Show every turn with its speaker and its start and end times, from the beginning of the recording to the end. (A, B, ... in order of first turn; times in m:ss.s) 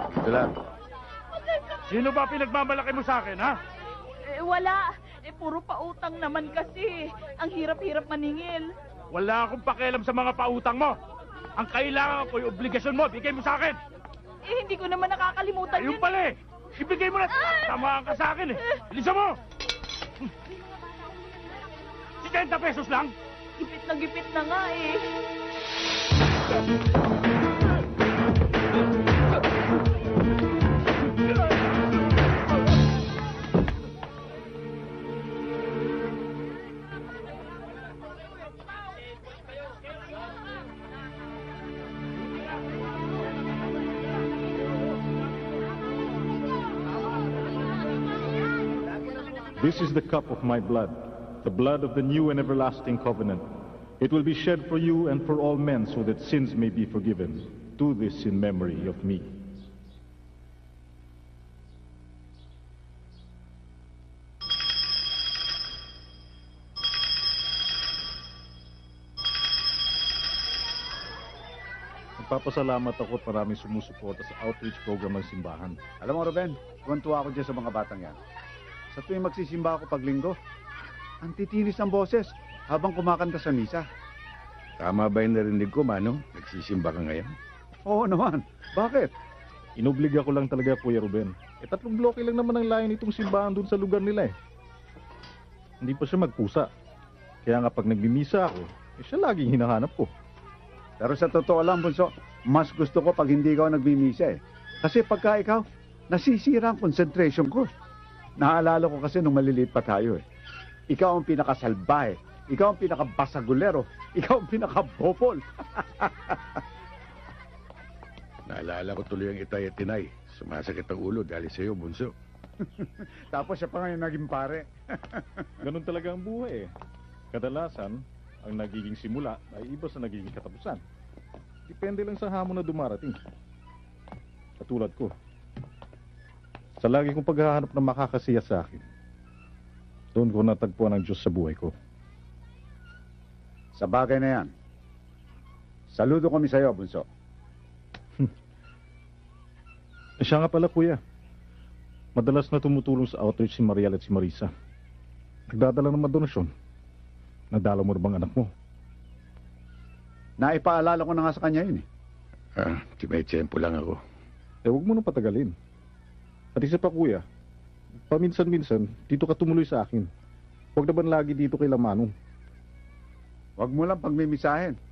0:01.9-0:03.6 A
0:04.5-0:08.6 B
0:09.1-0:11.0 A
0:11.6-0:13.8 A
0:14.5-0:16.2 B
0:15.8-0:19.4 A
0:22.2-0:23.1 A
0:23.6-0:25.0 B
0:49.6-0:53.4 C
0:54.0-0:59.2 C
1:12.2-1:15.8 C
1:16.0-1:18.2 D
1:19.0-1:20.4 D
1:21.2-1:23.8 D
1:24.8-1:27.3 E
1:27.9-1:29.1 D
1:29.8-1:34.3 C
1:35.8-1:36.7 C
1:37.4-1:40.1 C
1:41.0-1:47.7 D
1:48.4-1:50.2 D
1:50.9-1:56.4 D
1:58.5-2:02.1 E
2:02.7-2:05.5 D
2:05.6-2:06.7 C
2:07.3-2:10.8 C
2:11.7-2:13.2 C
2:14.6-2:15.1 C
2:16.8-2:18.8 C
2:20.2-2:21.7 C
2:23.8-2:24.5 D
2:25.9-2:27.0 D
2:30.2-2:31.0 C
2:32.2-2:34.5 C
2:35.5-2:36.5 C
2:37.5-2:38.5 C
2:40.4-2:41.8 D
2:42.6-2:44.0 E
2:44.6-2:45.5 C
2:46.6-2:47.2 C
2:48.1-2:50.1 C
2:50.8-2:52.1 C
2:53.6-2:54.8 D